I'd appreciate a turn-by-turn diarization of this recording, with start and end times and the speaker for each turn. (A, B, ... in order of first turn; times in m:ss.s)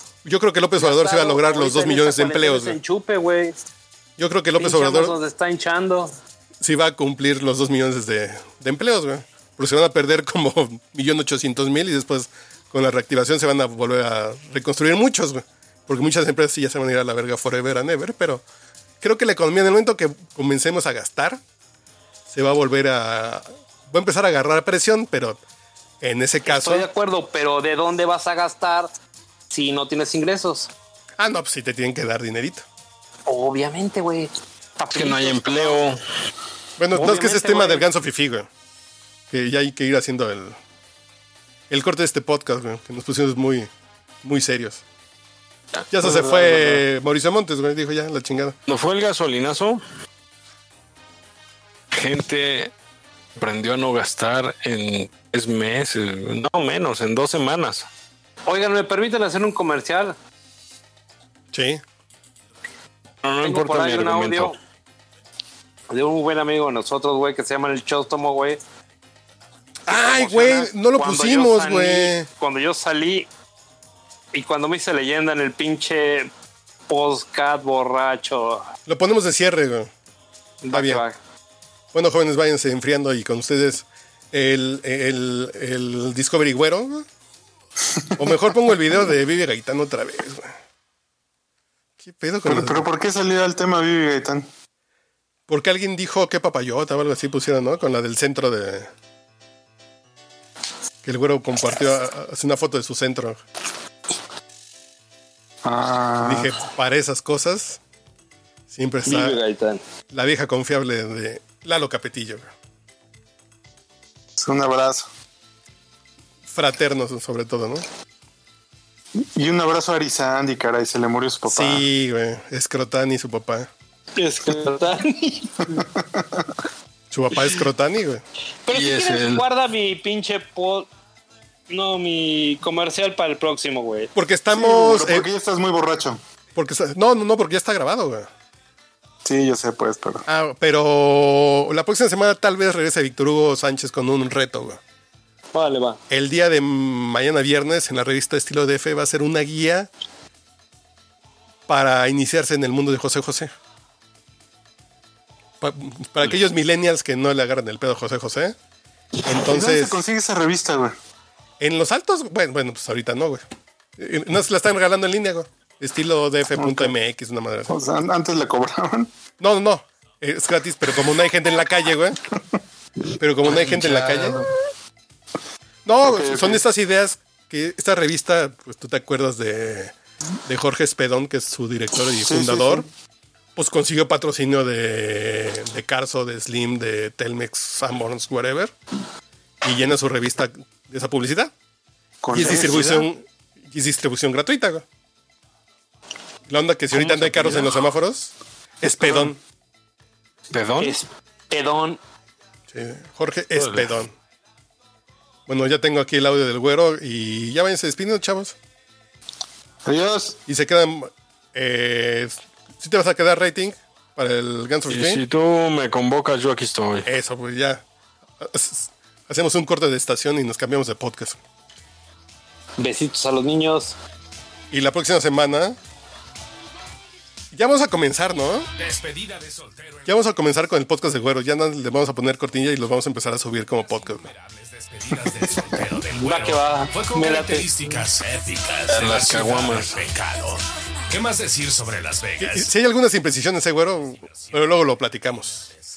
0:00.2-0:02.8 A
0:00.8-0:03.6 B
0:04.2-0:05.2 A
0:04.6-0:06.1 B
0:06.6-0:18.4 A
0:19.0-0:21.4 A
0:22.3-0:25.4 A
0:26.0-0:26.9 A
0:26.4-0:28.9 B
0:29.5-0:30.7 B
0:31.2-0:32.6 A
0:33.3-0:35.8 B
0:34.9-0:36.0 C
0:36.8-0:38.5 A
0:36.9-0:37.9 B
0:39.3-0:40.6 A
0:41.7-0:43.7 A
0:44.2-0:44.8 A
0:45.8-0:46.8 C
0:45.9-0:48.6 A
0:48.7-0:49.8 C
0:51.9-0:52.7 C
0:53.4-0:57.9 C
0:58.5-1:00.1 B
1:01.5-1:01.8 A
1:03.2-1:04.6 C
1:03.4-1:04.6 B
1:05.9-1:08.6 B
1:09.9-1:12.3 A
1:09.9-1:13.3 B
1:14.3-1:16.3 B
1:16.9-1:18.7 B
1:18.9-1:19.9 A
1:20.6-1:21.2 B
1:20.7-1:21.0 A
1:21.9-1:27.1 A
1:27.9-1:28.4 D
1:28.2-1:30.5 A
1:32.0-1:32.9 A
1:32.4-1:34.5 D
1:35.5-1:38.9 A
1:41.0-1:43.4 A
1:45.6-1:46.6 D
1:46.2-1:47.8 A
1:48.7-1:49.4 A
1:49.0-1:49.8 B
1:50.1-1:52.5 A
1:54.4-1:55.1 D
1:56.5-1:57.9 A
1:59.2-2:01.8 D
2:01.5-2:03.7 A
2:04.2-2:05.9 B
2:05.7-2:06.5 D
2:07.1-2:08.2 A
2:08.6-2:10.9 B
2:08.7-2:09.4 C
2:11.7-2:14.1 B
2:14.1-2:15.3 A
2:14.5-2:16.2 D
2:16.6-2:18.3 A
2:19.2-2:20.2 D
2:20.3-2:24.8 A
2:25.5-2:26.0 B
2:26.1-2:29.9 A
2:31.7-2:33.5 A
2:35.6-2:38.6 A
2:39.2-2:40.0 A
2:39.3-2:41.0 D
2:41.6-2:43.4 A
2:44.0-2:47.8 A
2:46.6-2:46.9 D
2:47.7-2:49.1 D
2:49.4-2:52.2 A
2:53.2-2:54.4 A
2:53.8-2:54.0 C
2:55.8-2:59.9 A
2:56.0-2:56.6 D
3:00.4-3:02.9 A
3:02.2-3:02.9 D
3:03.6-3:08.7 A
3:09.6-3:11.5 A
3:12.2-3:13.0 D
3:12.3-3:14.8 A
3:16.5-3:19.4 A
3:16.9-3:17.7 C
3:20.5-3:21.0 C
3:20.8-3:22.0 B
3:22.7-3:24.1 A
3:23.6-3:23.9 C
3:25.5-3:28.6 A
3:29.8-3:30.4 D
3:30.5-3:35.2 A
3:34.9-3:37.1 C
3:37.0-3:37.8 A
3:38.4-3:41.4 A
3:42.8-3:43.9 B
3:44.7-3:45.8 A
3:47.5-3:48.7 A
3:48.8-3:50.1 E
3:50.0-3:54.3 A
3:54.2-4:02.7 E
3:56.1-3:58.0 B
3:58.9-4:00.0 C
4:02.4-4:05.7 A